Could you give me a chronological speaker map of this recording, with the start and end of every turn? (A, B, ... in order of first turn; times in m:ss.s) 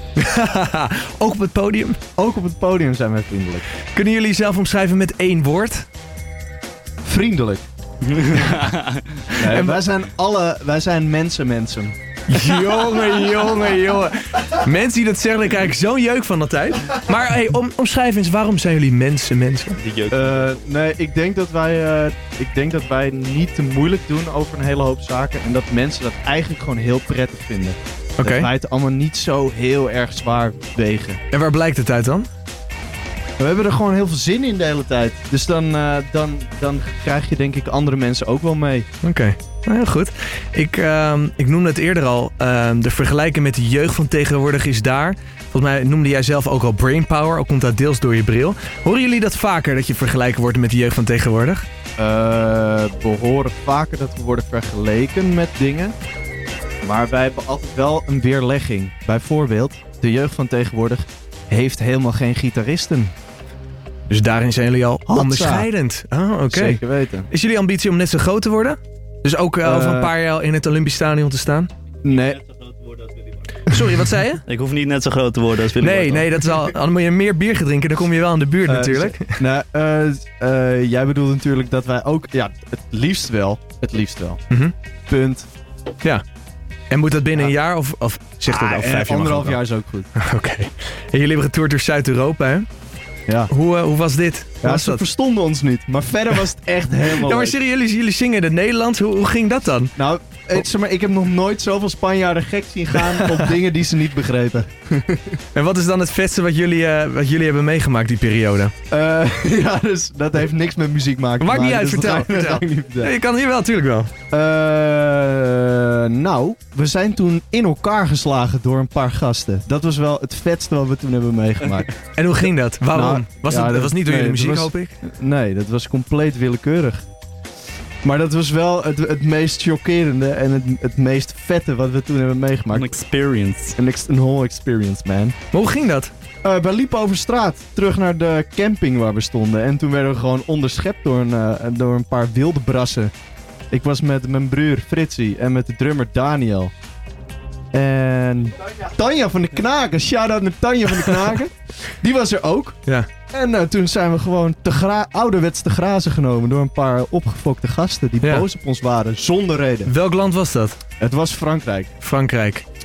0:00.2-0:02.0 A
0:02.2-0:03.6 B
0:03.9-0:05.9 A
0:07.0-0:07.6 B
0:08.0-0:09.1 C
0:09.3-0:12.0 B
0:09.3-0:09.8 A
0:12.3-0:19.8 A
0:19.8-0:20.5 C
0:20.1-0:31.2 B
0:28.2-0:28.5 A
0:31.3-0:32.3 A
0:33.4-0:38.9 B
0:39.0-0:51.6 A
0:52.0-0:55.9 B
0:56.8-1:03.1 B
1:04.1-1:11.7 A
1:05.1-1:05.7 B
1:06.5-1:07.3 B
1:09.6-1:10.1 B
1:12.0-1:12.4 B
1:12.1-1:13.6 C
1:13.7-1:14.4 A
1:14.4-1:16.6 C
1:15.8-1:19.4 A
1:18.7-1:24.4 B
1:25.1-1:25.5 B
1:26.9-1:29.6 A
1:28.5-1:30.1 B
1:30.2-1:32.6 A
1:33.3-1:33.5 B
1:33.5-1:35.0 A
1:34.6-1:37.6 B
1:37.1-1:39.9 A
1:40.0-1:45.4 B
1:43.0-1:43.4 A
1:45.5-1:48.7 A
1:48.9-1:53.1 B
1:51.4-1:54.1 A
1:54.3-2:01.9 B
2:02.2-2:05.0 A
2:02.9-2:07.0 B
2:08.0-2:12.9 B
2:12.7-2:13.8 C
2:13.8-2:15.3 B
2:15.5-2:16.1 A
2:16.4-2:23.1 B
2:23.7-2:26.7 B
2:27.7-2:39.9 B
2:38.2-2:38.5 A
2:39.9-2:40.8 A
2:41.0-2:41.9 B
2:42.0-2:42.6 A